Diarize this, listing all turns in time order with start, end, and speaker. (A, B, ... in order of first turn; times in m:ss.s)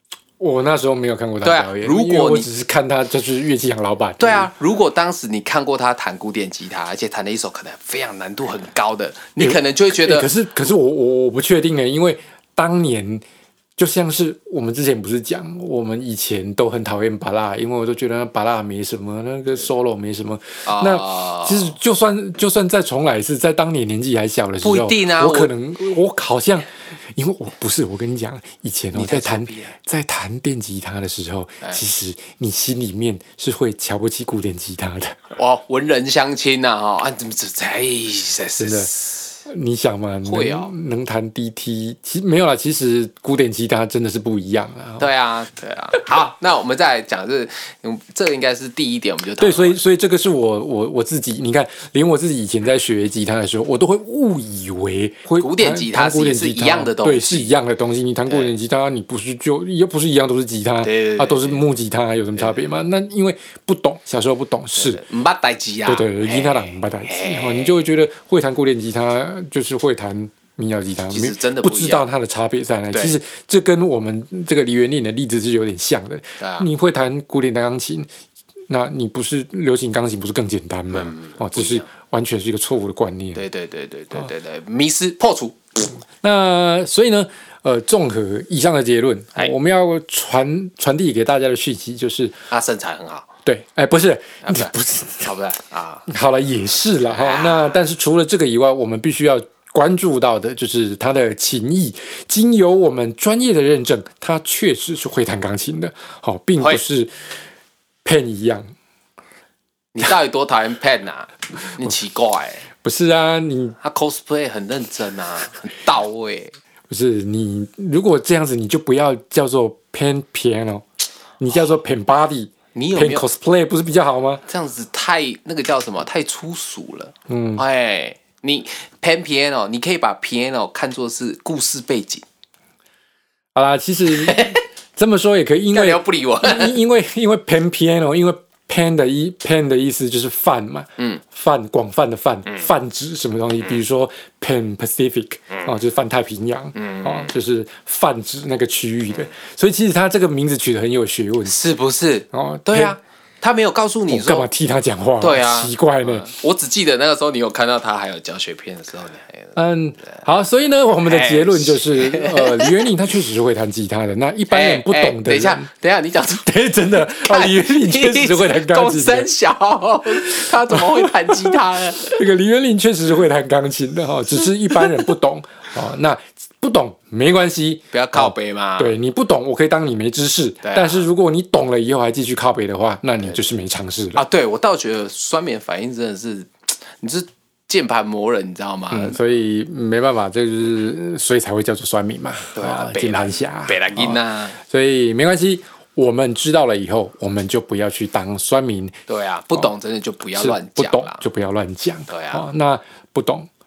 0:00.4-0:04.5 A
0:01.4-0:02.5 B
0:04.2-0:10.3 B
0:09.4-0:13.2 A
0:13.8-0:35.3 A
0:20.6-0:21.7 B
0:24.6-0:25.5 B
0:28.9-0:29.7 B
0:35.3-0:39.3 B
0:38.6-0:38.9 A
0:39.4-0:45.1 A
0:40.2-0:40.7 B
0:45.0-0:49.8 B
0:49.4-1:05.0 A
0:55.4-0:57.5 B
0:58.3-0:58.5 B
1:00.8-1:01.6 B
1:02.4-1:02.6 B
1:04.8-1:07.8 B
1:05.8-1:18.1 A
1:11.1-1:12.1 B
1:16.4-1:16.7 B
1:18.7-1:23.4 A
1:20.9-1:21.9 B
1:23.3-1:25.9 B
1:26.2-1:32.4 A
1:32.5-1:33.3 B
1:33.4-1:35.3 A
1:34.4-1:36.0 B
1:36.1-1:47.3 A
1:37.1-1:37.7 B
1:48.0-1:48.7 A
1:49.9-1:52.6 B
1:52.8-1:53.8 A
1:53.8-1:56.6 B
1:56.9-2:00.8 A
2:01.4-2:04.4 A
2:02.7-2:03.2 B
2:04.4-2:12.2 B
2:07.3-2:07.6 A
2:13.5-2:31.6 A
2:14.1-2:14.6 B
2:15.7-2:16.8 B
2:26.8-2:27.3 B
2:31.4-2:34.5 B
2:32.3-2:33.0 A
2:34.1-2:36.3 A
2:35.2-2:39.5 B
2:39.5-2:45.7 A
2:41.0-2:42.9 B
2:44.5-2:52.2 B
2:46.3-2:49.3 A
2:50.2-3:04.2 A
2:54.7-2:55.1 B
2:57.9-2:58.9 B
3:00.6-3:01.0 B
3:04.1-3:09.2 B
3:08.9-3:19.0 A
3:12.5-3:14.6 B
3:19.1-3:21.2 B
3:20.4-3:23.5 A
3:22.1-3:22.4 B